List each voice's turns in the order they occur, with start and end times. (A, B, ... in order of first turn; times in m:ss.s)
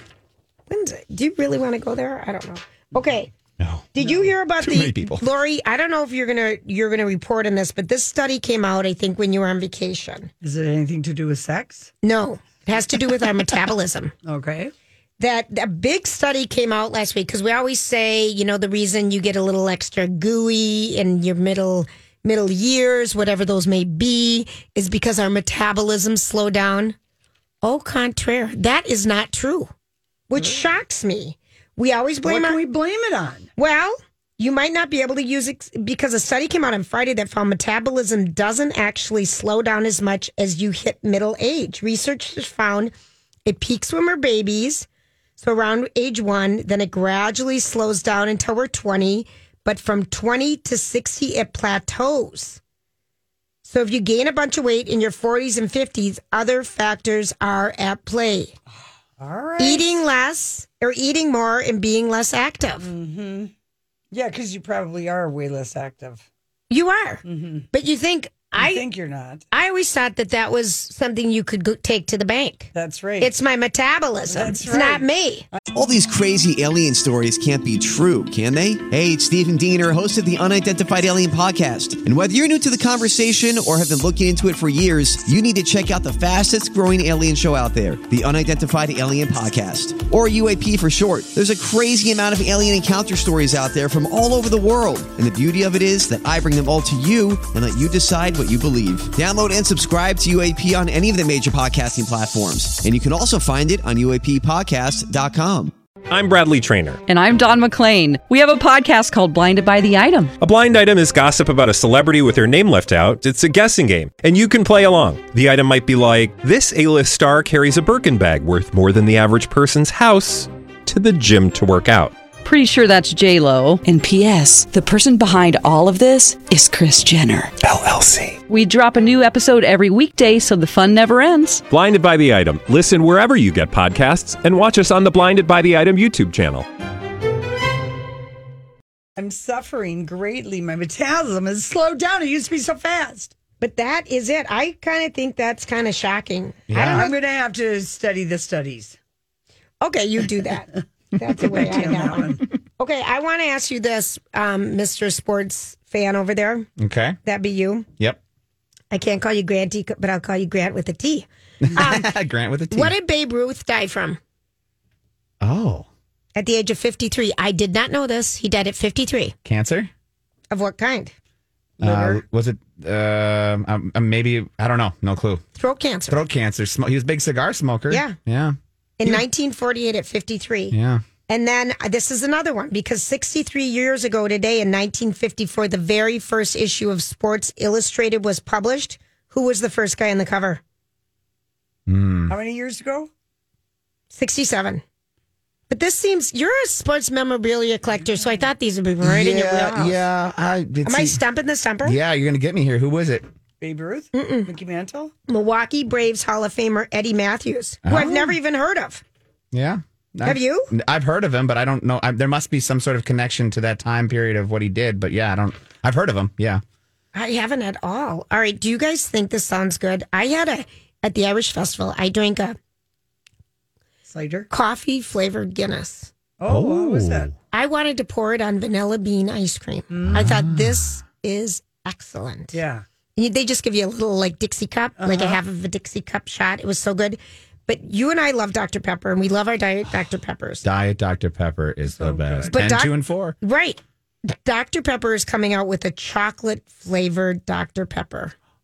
0:00.7-0:03.3 A
0:03.6-0:04.1 B
0:03.9-0:10.3 A
0:04.6-0:05.2 B
0:10.4-0:11.9 C
0:12.0-0:14.1 A
0:14.2-0:14.7 C
0:15.2-0:26.9 A
0:27.6-0:29.7 A
0:30.3-0:32.6 A
0:32.2-0:33.5 C
0:33.6-0:42.9 A
0:43.4-0:44.9 A
0:45.4-0:52.6 A
0:53.6-0:58.5 A
0:59.2-1:00.0 C
0:59.6-1:02.9 A
1:02.8-1:03.5 C
1:04.1-1:06.2 C
1:06.7-1:08.8 A
1:07.2-1:07.7 C
1:08.6-1:09.4 C
1:09.5-1:15.4 A
1:12.7-1:13.3 C
1:14.3-1:15.6 C
1:15.7-1:45.7 D
1:46.1-1:47.0 E
1:47.0-1:50.3 F
1:50.4-2:02.1 E
2:02.4-2:07.6 F
2:07.7-2:08.4 E
2:08.5-2:11.6 F
2:11.7-2:16.6 E
2:19.2-2:23.3 C
2:23.6-2:27.1 A
2:26.7-2:27.1 B
2:26.9-2:29.0 C
2:29.8-2:36.7 A
2:31.4-2:32.4 C
2:36.8-2:37.2 B
2:37.2-2:37.9 A
2:38.9-2:42.1 A
2:41.6-2:42.9 B
2:42.7-2:44.2 A
2:45.4-2:45.9 B
2:46.4-2:49.3 A
2:49.4-2:49.9 B
2:50.5-2:51.1 A
2:51.8-2:55.4 B
2:51.8-2:52.1 A
2:55.6-2:56.2 A
2:56.1-2:59.2 B
2:57.9-2:58.2 A
2:59.0-3:00.7 A
3:00.7-3:01.0 B
3:01.3-3:10.6 A
3:11.9-3:12.3 B
3:12.3-3:13.1 C
3:14.1-3:14.8 A
3:15.7-3:20.0 A
3:19.0-3:21.2 B
3:20.8-3:22.0 A
3:21.8-3:23.2 B
3:23.6-3:25.1 C
3:24.1-3:24.5 A
3:25.3-3:29.0 A
3:27.8-3:28.3 B
3:29.5-3:36.6 B
3:30.2-3:30.7 A
3:37.1-3:42.6 A
3:44.0-3:44.5 C
3:44.5-3:46.1 A
3:46.4-3:47.3 C
3:46.4-3:47.3 B
3:47.5-3:52.6 A
3:49.9-3:50.4 C
3:50.1-3:50.8 B
3:52.5-3:52.8 C
3:53.2-4:00.6 A
3:55.0-3:55.4 C
4:00.6-4:03.4 B
4:01.9-4:02.6 C
4:02.5-4:08.3 A